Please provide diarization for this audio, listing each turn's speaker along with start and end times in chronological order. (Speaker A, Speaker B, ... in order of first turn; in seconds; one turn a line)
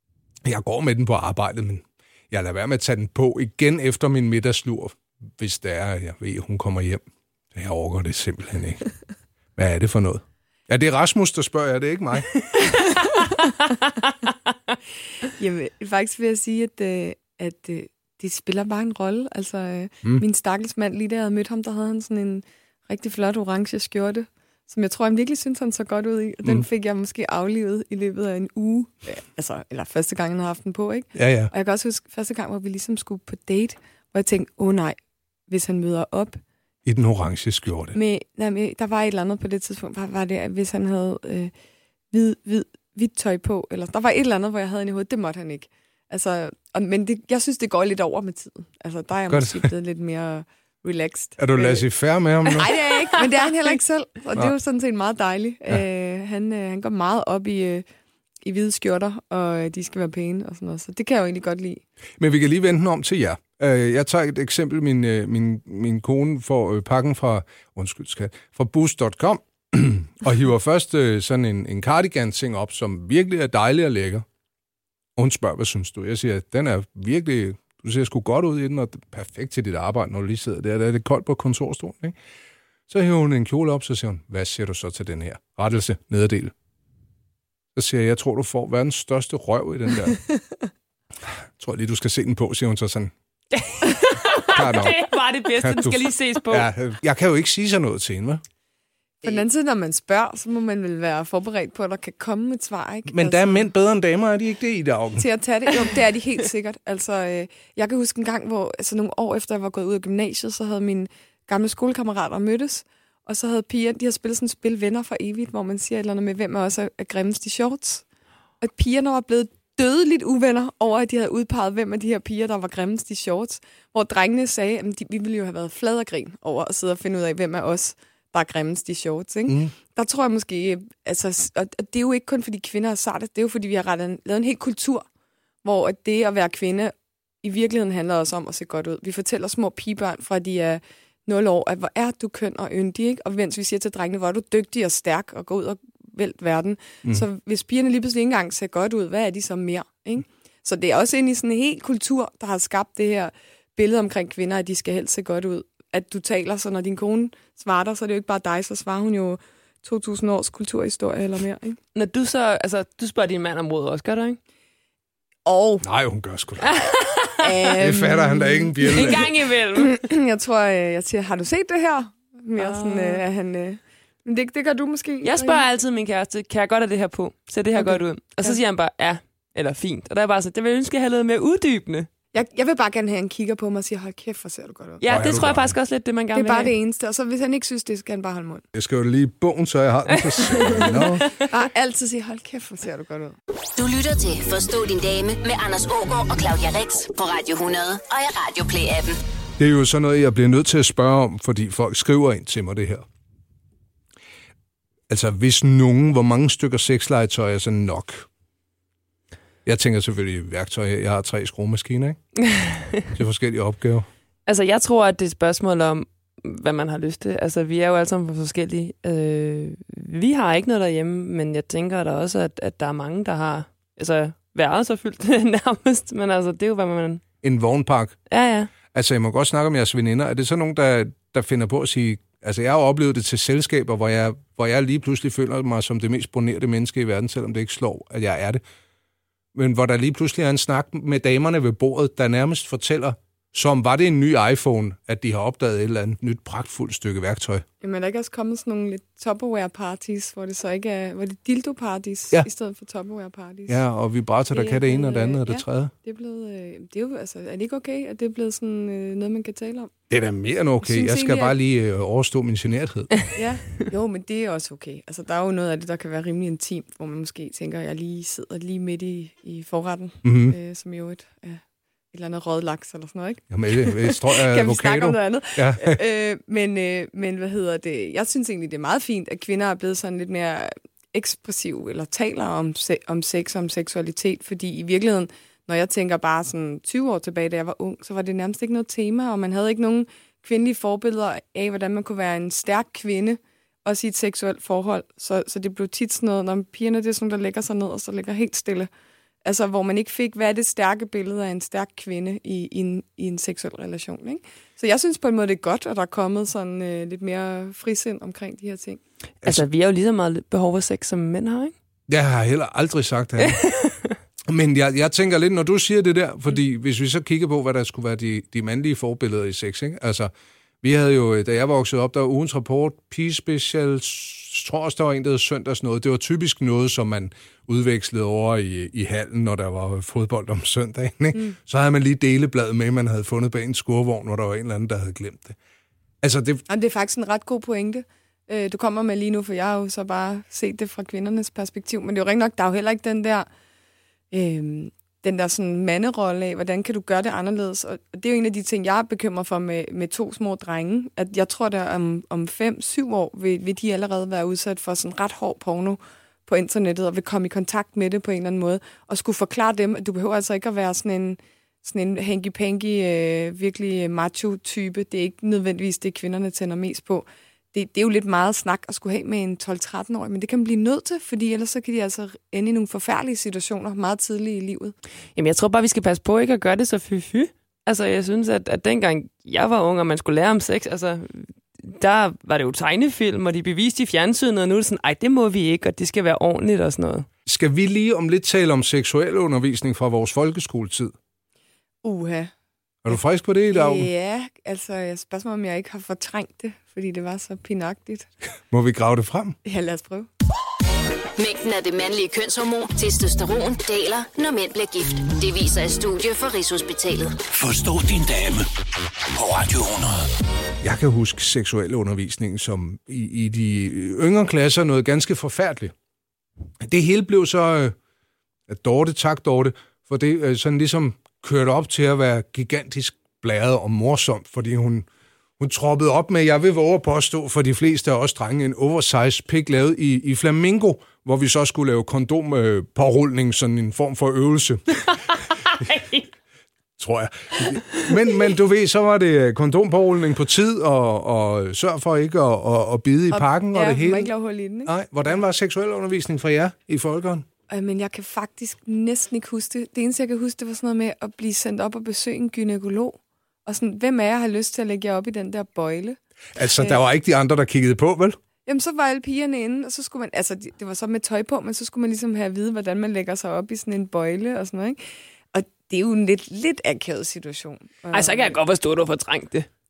Speaker A: 0.4-7.0
Speaker A: 7.5-8.8
Speaker A: 9.6-12.3
Speaker B: 15.2-35.0
Speaker A: 31.1-31.5
Speaker B: 35.5-36.4
Speaker A: 36.9-38.0
Speaker B: 37.9-41.5
Speaker B: 42.1-51.9
Speaker A: 49.3-49.7
Speaker A: 51.4-52.8
Speaker B: 52.4-57.9
Speaker B: 58.4-61.8
Speaker A: 62.2-74.2
Speaker A: 75.2-82.2
Speaker A: 82.9-86.5
Speaker A: 87.8-90.2
Speaker A: 91.2-93.1
Speaker C: 93.5-96.7
Speaker A: 94.5-98.4
Speaker B: 99.2-103.7
Speaker A: 103.1-105.2
Speaker B: 105.2-118.0
Speaker B: 118.6-135.1
Speaker A: 129.5-129.7
Speaker B: 135.6-161.8
Speaker C: 161.9-164.4
Speaker B: 165.4-165.8
Speaker A: 165.8-166.8
Speaker C: 166.6-167.8
Speaker B: 167.4-175.6
Speaker A: 167.8-169.3
Speaker C: 168.8-170.1
Speaker C: 172.6-173.2
Speaker C: 175.2-182.1
Speaker B: 177.8-178.6
Speaker B: 182.3-185.1
Speaker C: 185.0-186.7
Speaker A: 185.1-185.8
Speaker B: 186.3-188.6
Speaker A: 188.7-191.2
Speaker C: 190.2-191.3
Speaker B: 190.7-193.4
Speaker D: 193.8-199.2
Speaker A: 199.6-203.1
Speaker A: 205.1-208.3
Speaker A: 209.6-212.2
Speaker C: 212.5-213.0
Speaker A: 213.1-214.1
Speaker C: 214.5-227.2
Speaker A: 227.4-228.2
Speaker C: 228.3-228.7
Speaker A: 228.9-238.6
Speaker A: 239.5-247.6
Speaker B: 247.8-253.8
Speaker A: 253.7-255.9
Speaker B: 254.5-259.9
Speaker A: 260.1-263.2
Speaker B: 260.8-261.5
Speaker B: 263.4-298.9
Speaker A: 270.2-270.6
Speaker A: 273.5-276.0
Speaker B: 299.4-309.0
Speaker C: 309.4-311.7
Speaker A: 312.1-313.6
Speaker C: 313.4-314.1
Speaker A: 314.5-320.3
Speaker A: 320.8-335.6
Speaker A: 336.2-336.6
Speaker B: 336.7-343.5
Speaker B: 344.3-374.9
Speaker C: 375.4-387.3
Speaker A: 387.5-391.1
Speaker B: 392.0-392.5
Speaker A: 393.0-394.1
Speaker B: 393.7-398.3
Speaker A: 398.7-399.6
Speaker B: 399.6-400.3
Speaker D: 401.4-407.4
Speaker E: 407.5-408.7
Speaker E: 409.3-410.3
Speaker A: 410.8-415.9
Speaker A: 416.8-417.9
Speaker A: 418.7-425.1
Speaker A: 425.6-435.1
Speaker C: 435.7-436.2
Speaker A: 437.0-444.3
Speaker B: 443.3-444.9
Speaker A: 444.9-447.5
Speaker B: 447.7-457.0
Speaker A: 456.6-458.4
Speaker B: 458.6-465.0
Speaker B: 465.5-468.6
Speaker C: 468.1-469.7